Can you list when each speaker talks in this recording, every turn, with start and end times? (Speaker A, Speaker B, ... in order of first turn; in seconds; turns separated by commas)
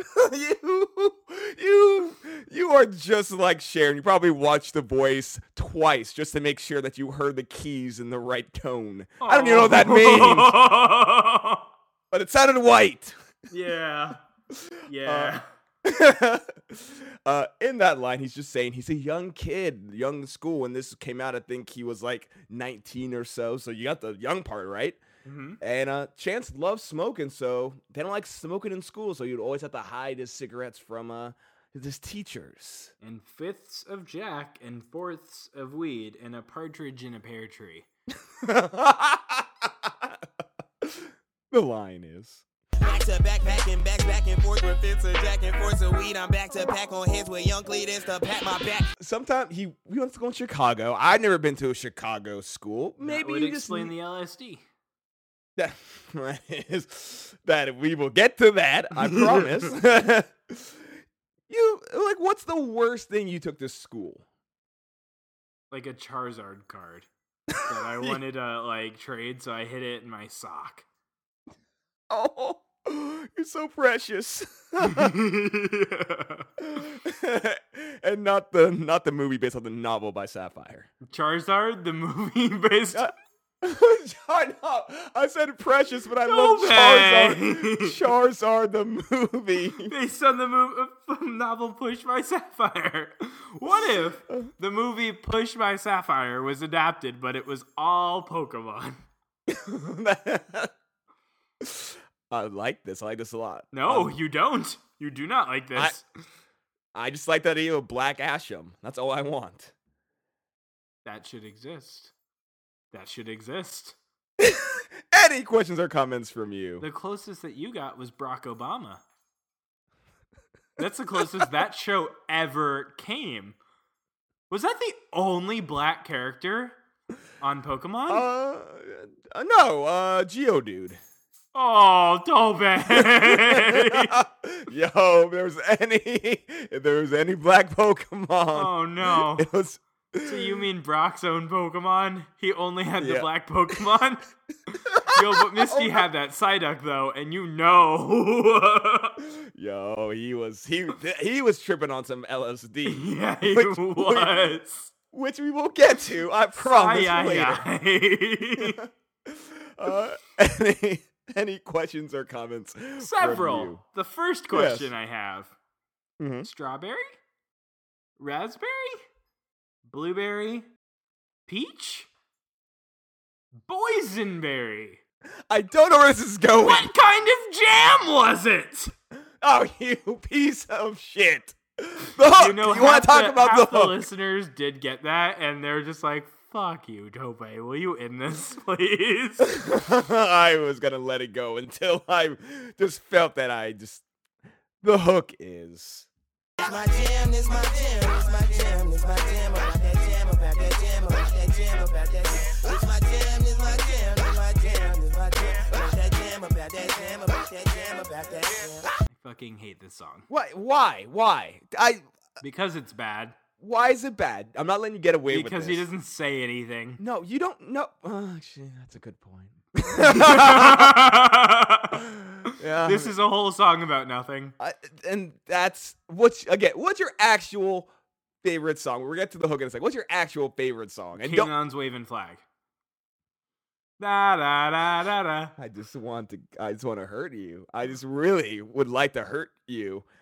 Speaker A: 0.1-10.6, Speaker B: 9.2-11.7, Speaker A: 12.1-13.1, Speaker B: 13.5-14.2, Speaker A: 14.5-25.0, Speaker B: 14.8-15.5, Speaker B: 25.2-25.6, Speaker A: 25.6-32.9, Speaker B: 33.0-37.9, Speaker A: 38.4-40.2, Speaker A: 40.8-42.4, Speaker C: 42.8-48.9, Speaker A: 49.0-53.9, Speaker B: 53.0-54.6, Speaker A: 55.6-60.9, Speaker B: 58.9-59.7, Speaker A: 61.5-64.2, Speaker B: 65.7-67.1, Speaker A: 67.5-68.2, Speaker B: 67.6-70.8, Speaker A: 72.1-75.1, Speaker B: 74.8-76.5, Speaker A: 76.6-80.9, Speaker B: 81.1-83.1, Speaker A: 82.9-89.9, Speaker B: 86.2-88.0, Speaker B: 89.9-99.0, Speaker A: 99.5-100.7, Speaker A: 101.6-104.1, Speaker B: 103.7-106.0, Speaker A: 106.9-109.7, Speaker B: 111.0-112.1, Speaker B: 112.9-114.0, Speaker A: 114.4-116.8, Speaker B: 116.8-119.0, Speaker B: 120.8-123.6, Speaker B: 124.5-126.8, Speaker B: 127.4-128.3, Speaker A: 128.1-131.0, Speaker B: 131.5-134.1, Speaker A: 132.9-140.6, Speaker B: 138.5-139.5, Speaker B: 140.2-144.2, Speaker A: 143.0-143.3, Speaker A: 144.9-146.0, Speaker B: 145.0-149.2, Speaker A: 149.4-154.4, Speaker B: 152.8-154.9, Speaker A: 155.1-157.6, Speaker B: 156.6-158.8, Speaker A: 158.6-163.8, Speaker B: 163.0-165.5, Speaker A: 164.5-164.9, Speaker A: 166.2-166.5, Speaker B: 166.4-167.1, Speaker B: 168.2-169.0, Speaker B: 169.9-170.7, Speaker B: 171.5-172.1, Speaker B: 173.7-175.0, Speaker A: 175.5-176.9, Speaker B: 176.6-178.9, Speaker A: 179.4-184.0, Speaker B: 182.3-189.5, Speaker A: 189.4-194.0, Speaker A: 194.8-196.1, Speaker C: 196.6-208.9, Speaker B: 209.1-210.3, Speaker A: 210.3-212.0, Speaker B: 212.4-213.3, Speaker A: 213.6-215.8, Speaker B: 215.3-217.0, Speaker A: 217.0-221.0, Speaker B: 219.9-224.5, Speaker A: 221.9-223.1, Speaker A: 224.6-227.9, Speaker A: 228.4-231.5, Speaker B: 231.2-232.4, Speaker B: 234.0-235.5, Speaker A: 235.6-240.0